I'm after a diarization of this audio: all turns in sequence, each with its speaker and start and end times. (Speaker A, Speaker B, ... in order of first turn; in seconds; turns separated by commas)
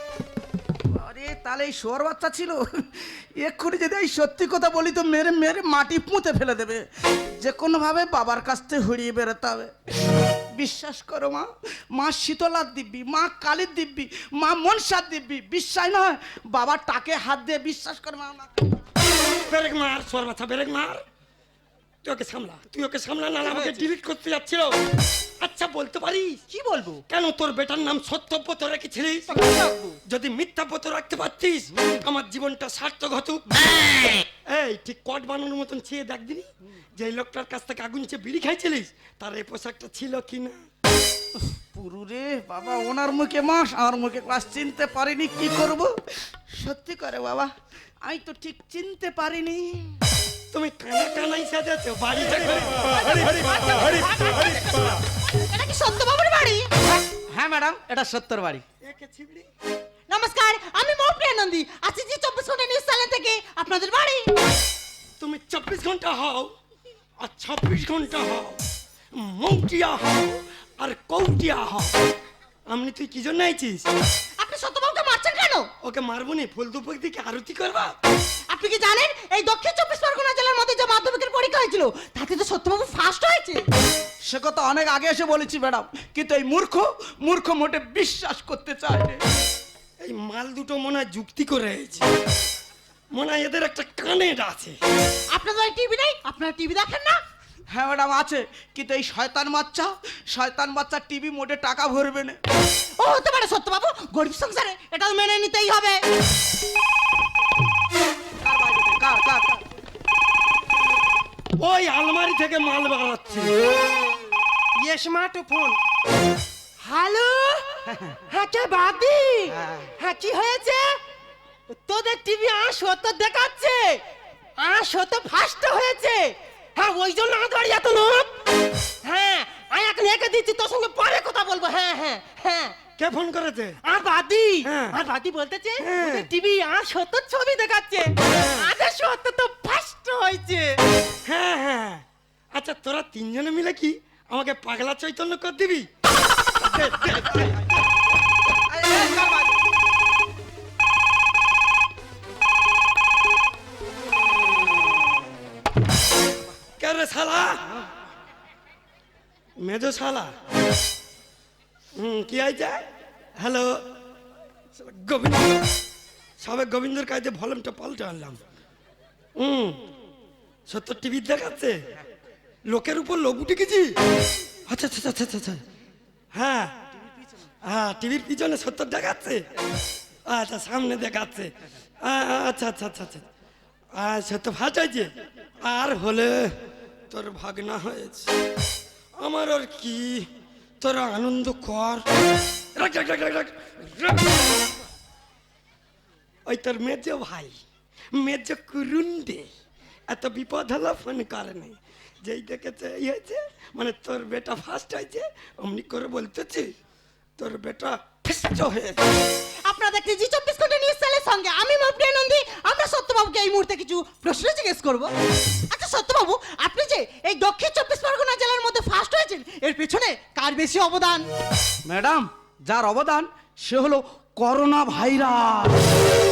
Speaker A: 0.9-18.6, Speaker B: 19.5-21.0, Speaker B: 22.0-24.8, Speaker C: 23.5-23.9, Speaker B: 25.4-26.4, Speaker C: 26.5-27.0, Speaker B: 27.1-29.4, Speaker C: 29.3-30.0, Speaker B: 30.1-33.6, Speaker A: 31.8-32.0, Speaker B: 34.5-40.6, Speaker A: 41.4-46.0, Speaker A: 46.5-47.5, Speaker A: 48.0-50.0, Speaker B: 50.5-53.1, Speaker C: 53.2-54.6, Speaker D: 54.3-56.7, Speaker A: 57.3-58.6, Speaker B: 58.8-59.5, Speaker D: 60.1-64.3, Speaker B: 65.2-66.5, Speaker B: 67.2-68.6, Speaker B: 69.2-72.0, Speaker B: 72.7-73.9, Speaker D: 74.4-75.7, Speaker B: 75.8-77.9, Speaker D: 78.5-83.7, Speaker A: 84.3-89.2, Speaker B: 90.0-92.1, Speaker B: 93.1-94.8, Speaker D: 95.3-97.2, Speaker A: 97.7-102.4, Speaker D: 103.0-106.0, Speaker A: 108.4-109.6, Speaker B: 111.6-113.5, Speaker C: 114.8-115.8, Speaker C: 116.8-121.0, Speaker A: 117.9-118.2, Speaker A: 119.5-119.9, Speaker C: 121.7-124.0, Speaker C: 124.6-128.3, Speaker C: 129.0-132.8, Speaker B: 133.0-133.8, Speaker C: 133.8-140.8, Speaker B: 134.7-135.0, Speaker B: 135.8-136.3, Speaker B: 141.3-145.9, Speaker B: 146.6-147.7, Speaker A: 148.7-149.6, Speaker B: 156.8-157.7, Speaker B: 159.6-160.3, Speaker B: 162.0-162.9, Speaker B: 163.4-163.8, Speaker B: 164.8-165.7, Speaker B: 166.4-168.4, Speaker B: 169.4-169.8, Speaker B: 170.7-171.8, Speaker B: 172.7-174.0, Speaker B: 174.7-175.6, Speaker B: 176.3-176.7, Speaker B: 177.7-179.4, Speaker B: 180.3-183.2, Speaker B: 183.9-185.1, Speaker B: 185.6-186.6, Speaker B: 187.1-188.3, Speaker B: 189.2-190.3, Speaker B: 190.8-192.1, Speaker B: 192.8-194.7, Speaker B: 196.5-197.6, Speaker B: 198.1-199.5, Speaker B: 200.1-206.7, Speaker B: 207.4-209.0, Speaker D: 209.7-215.1, Speaker D: 215.7-221.3, Speaker A: 221.9-225.9